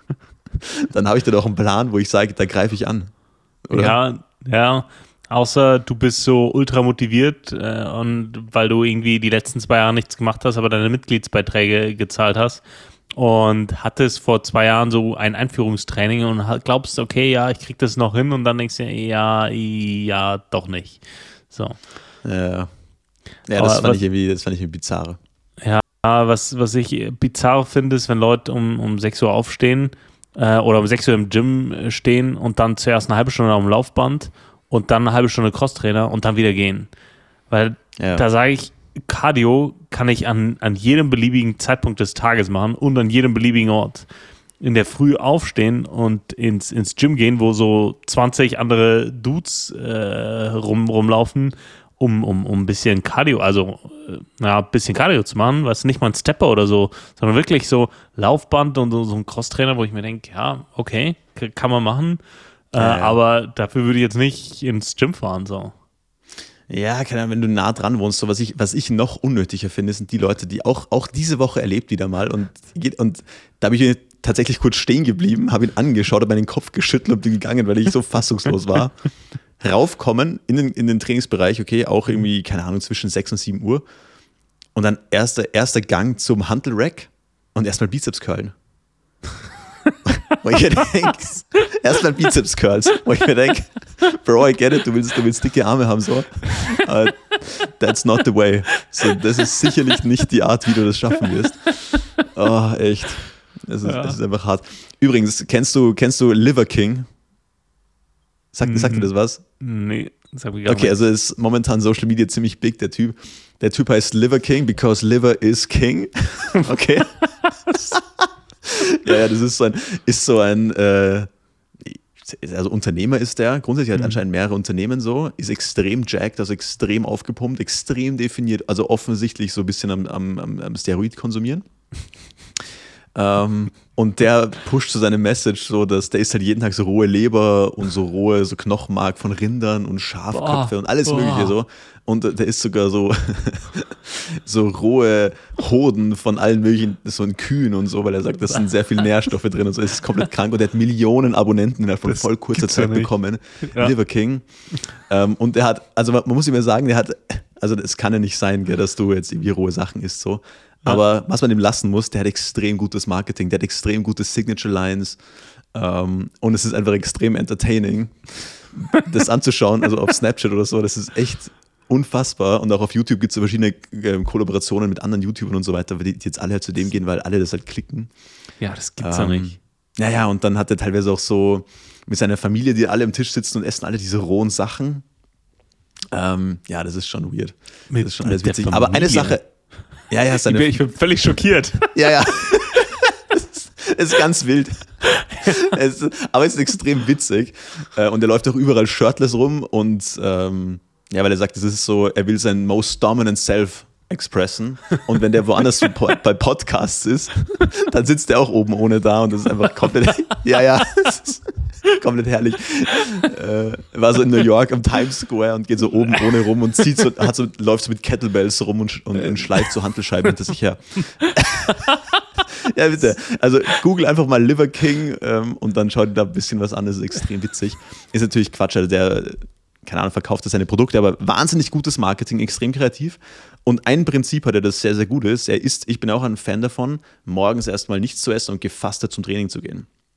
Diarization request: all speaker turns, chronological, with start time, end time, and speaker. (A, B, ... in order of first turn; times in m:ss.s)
0:00.6-0:04.0 A
0:03.7-0:12.6 B
0:13.1-0:21.8 B
0:22.2-0:22.7 A
0:23.4-0:25.2 A
0:23.6-0:24.0 B
0:25.6-0:36.9 B
0:37.5-0:44.1 B
0:38.0-0:38.2 A
0:44.6-1:02.2 B
1:02.7-1:05.7 B
1:02.8-1:03.2 A
1:06.7-1:23.8 A
1:24.7-1:28.5 A
1:30.0-1:47.1 A
1:43.8-1:44.2 B
1:48.5-1:49.4 A
1:48.6-1:50.9 B
1:50.6-1:57.2 A
1:57.9-2:01.3 A
2:01.8-2:11.7 A
2:03.9-2:04.2 B
2:13.1-2:45.2 A
2:20.3-2:21.6 B
2:32.1-2:33.9 B
2:45.7-2:58.1 A
2:58.6-2:59.6 B
2:59.0-3:05.0 A
3:06.1-3:09.5 A
3:07.9-3:09.4 B
3:10.1-3:10.7 A
3:10.3-3:12.0 B
3:11.9-3:59.9 A
3:15.3-3:15.5 B